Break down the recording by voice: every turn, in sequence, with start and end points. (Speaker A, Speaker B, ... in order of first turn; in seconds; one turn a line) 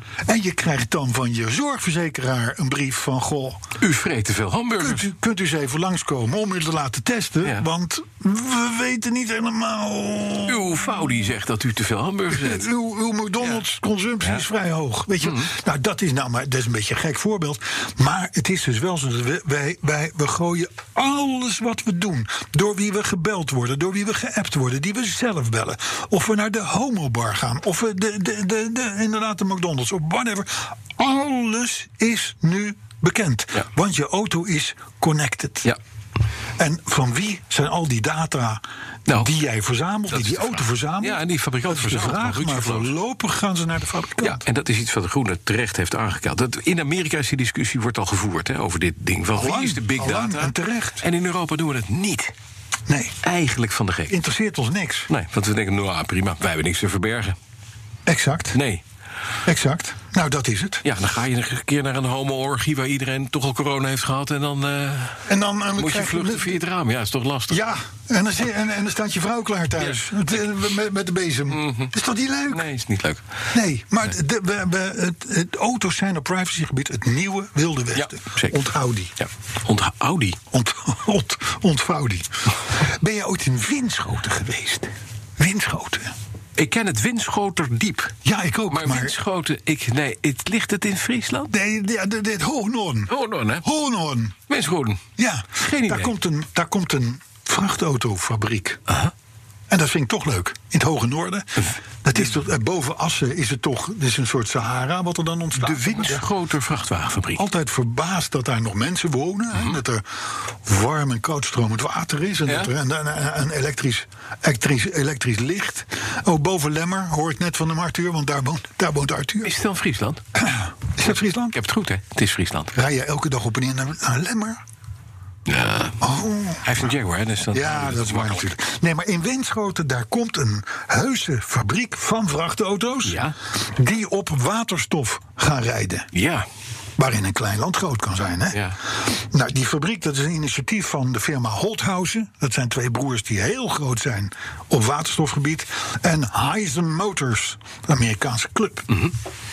Speaker A: 0.3-3.6
Speaker B: 3.8-5.1
Speaker A: 4.8-10.9
Speaker B: 10.5-12.7
Speaker A: 12.3-35.7
Speaker B: 15.2-15.5
Speaker A: 36.6-44.4
Speaker B: 40.1-42.9
Speaker B: 44.2-52.3
Speaker A: 49.3-51.0
Speaker A: 52.9-53.2
Speaker B: 53.2-54.1
Speaker A: 54.1-55.1
Speaker B: 55.1-57.4
Speaker A: 58.0-58.6
Speaker B: 58.5-58.8
Speaker A: 59.5-60.9
Speaker B: 60.8-65.2
Speaker A: 65.3-66.6
Speaker B: 65.8-67.6
Speaker A: 67.5-72.7
Speaker B: 69.8-70.6
Speaker B: 71.5-71.9
Speaker B: 72.5-73.2
Speaker A: 73.5-79.1
Speaker B: 78.0-78.6
Speaker B: 79.2-80.4
Speaker A: 80.5-86.1
Speaker B: 86.6-88.1
Speaker A: 88.2-89.2
Speaker B: 88.7-91.5
Speaker A: 91.5-94.4
Speaker B: 93.1-93.6
Speaker B: 94.5-95.0
Speaker A: 95.2-98.8
Speaker B: 95.6-96.1
Speaker A: 99.7-106.2
Speaker B: 105.5-107.4
Speaker A: 107.3-119.5
Speaker B: 112.5-112.7
Speaker B: 119.4-120.2
Speaker A: 120.3-121.6
Speaker B: 121.5-122.8
Speaker A: 122.7-124.6
Speaker B: 125.5-126.0
Speaker A: 126.0-126.8
Speaker B: 126.6-128.5
Speaker A: 127.5-136.1
Speaker B: 133.1-133.3
Speaker B: 136.1-136.4
Speaker A: 137.0-148.9